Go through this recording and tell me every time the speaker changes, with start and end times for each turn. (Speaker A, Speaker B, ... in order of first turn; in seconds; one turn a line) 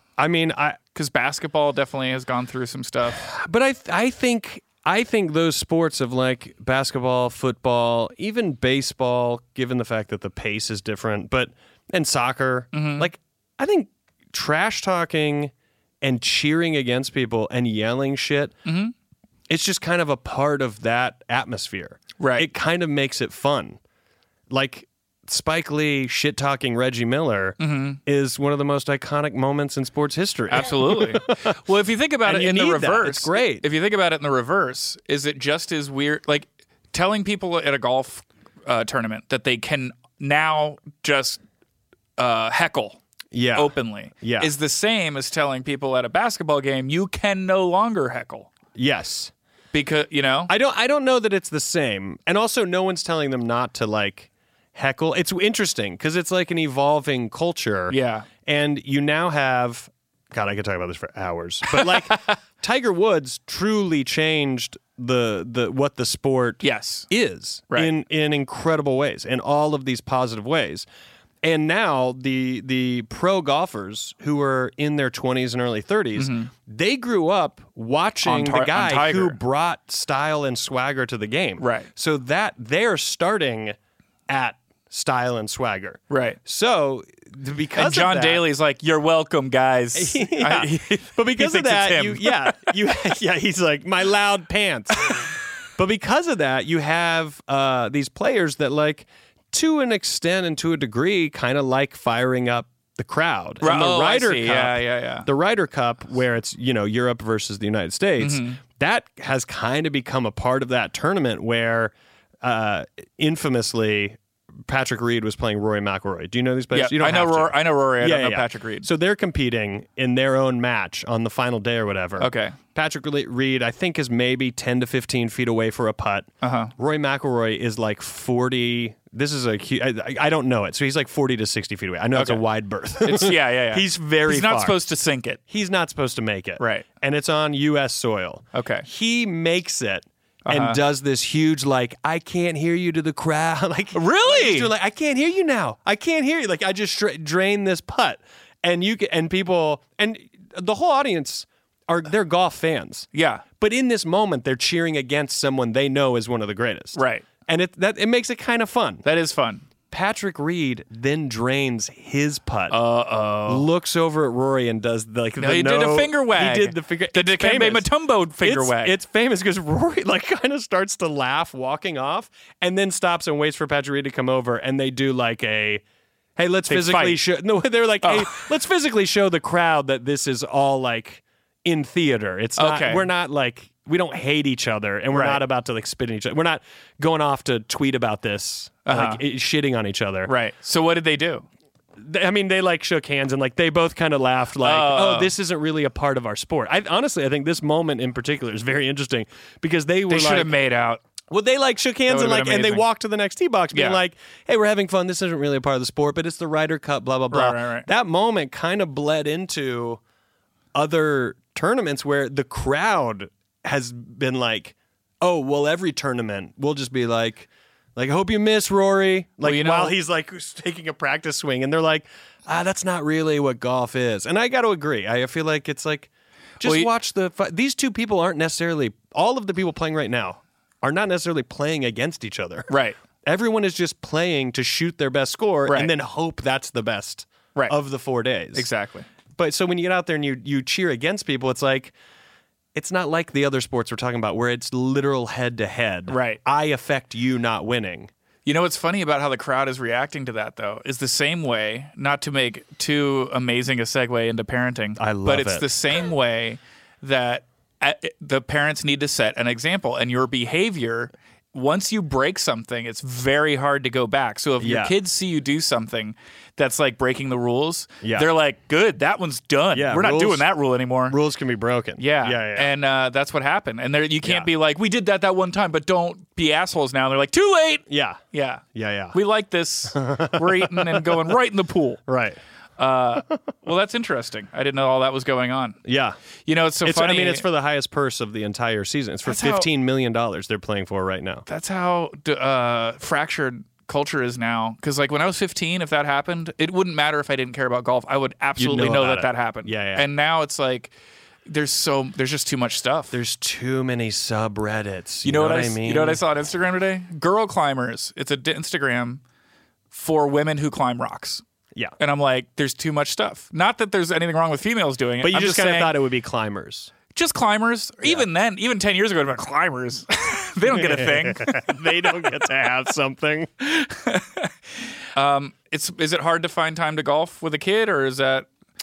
Speaker A: 0.2-0.8
Speaker B: 0.9-3.2
Speaker A: 3.1-18.5
Speaker B: 12.7-13.1
Speaker B: 18.6-18.9
Speaker A: 19.5-23.8
Speaker B: 22.2-22.5
Speaker A: 24.5-31.4
Speaker B: 27.6-28.0
Speaker B: 30.5-41.4
Speaker A: 32.2-33.6
Speaker B: 42.2-43.0
Speaker A: 43.3-44.5
Speaker B: 43.5-48.5
Speaker A: 48.7-49.3
Speaker B: 49.7-50.5
Speaker A: 50.5-70.8
Speaker B: 57.9-58.3
Speaker B: 61.7-62.2
Speaker B: 66.6-67.1
Speaker A: 71.4-83.8
Speaker B: 76.2-76.5
Speaker B: 78.2-79.4
Speaker B: 81.6-81.9
Speaker A: 84.3-88.4
Speaker B: 86.1-86.4
Speaker B: 87.8-92.7
Speaker A: 89.9-134.7
Speaker B: 103.6-105.3
Speaker B: 108.2-108.6
Speaker B: 116.7-118.9
Speaker B: 122.2-122.6
Speaker B: 126.4-126.7
Speaker B: 132.1-132.4
Speaker B: 133.0-135.4
Speaker A: 135.5-153.1
Speaker B: 136.6-136.8
Speaker B: 138.5-138.8
Speaker B: 140.4-140.8
Speaker B: 143.9-144.7
Speaker B: 153.1-153.4
Speaker A: 153.6-159.0
Speaker B: 156.9-157.3
Speaker B: 159.0-159.6
Speaker A: 159.9-162.8
Speaker B: 162.7-163.7
Speaker A: 163.5-167.9
Speaker B: 165.4-168.9
Speaker A: 168.4-175.8
Speaker A: 176.4-190.3
Speaker B: 176.7-177.2
Speaker B: 178.0-178.5
Speaker B: 182.6-183.1
Speaker B: 185.1-185.4
Speaker B: 188.8-189.2
Speaker B: 190.2-191.4
Speaker A: 192.0-200.5
Speaker B: 194.6-195.3
Speaker B: 200.1-201.0
Speaker A: 201.3-210.0
Speaker B: 202.1-202.8
Speaker B: 203.7-204.0
Speaker B: 207.3-207.9
Speaker A: 210.7-238.7
Speaker B: 219.4-219.9
Speaker B: 226.6-226.9
Speaker B: 232.7-233.0
Speaker B: 235.7-235.9
Speaker B: 238.5-239.1
Speaker A: 239.4-241.9
Speaker A: 242.7-248.1
Speaker B: 246.1-246.4
Speaker B: 248.4-271.2
Speaker A: 255.0-255.7
Speaker A: 264.6-264.9
Speaker A: 268.0-268.3
Speaker A: 269.7-270.4
Speaker A: 271.1-272.7
Speaker B: 272.0-282.0
Speaker A: 274.2-274.5
Speaker A: 277.9-278.2
Speaker A: 278.7-279.1
Speaker A: 279.9-281.3
Speaker A: 282.1-282.4
Speaker B: 282.8-285.8
Speaker A: 285.8-286.1
Speaker B: 286.5-287.4
Speaker A: 286.8-291.4
Speaker B: 289.2-289.7
Speaker B: 291.5-300.9
Speaker A: 298.6-300.1
Speaker B: 301.5-303.2
Speaker A: 303.1-306.2
Speaker B: 305.2-309.2
Speaker B: 309.9-311.4
Speaker B: 312.0-315.9
Speaker A: 315.2-316.9
Speaker B: 317.1-321.8
Speaker A: 320.7-323.5
Speaker B: 323.7-324.5
Speaker B: 325.1-328.5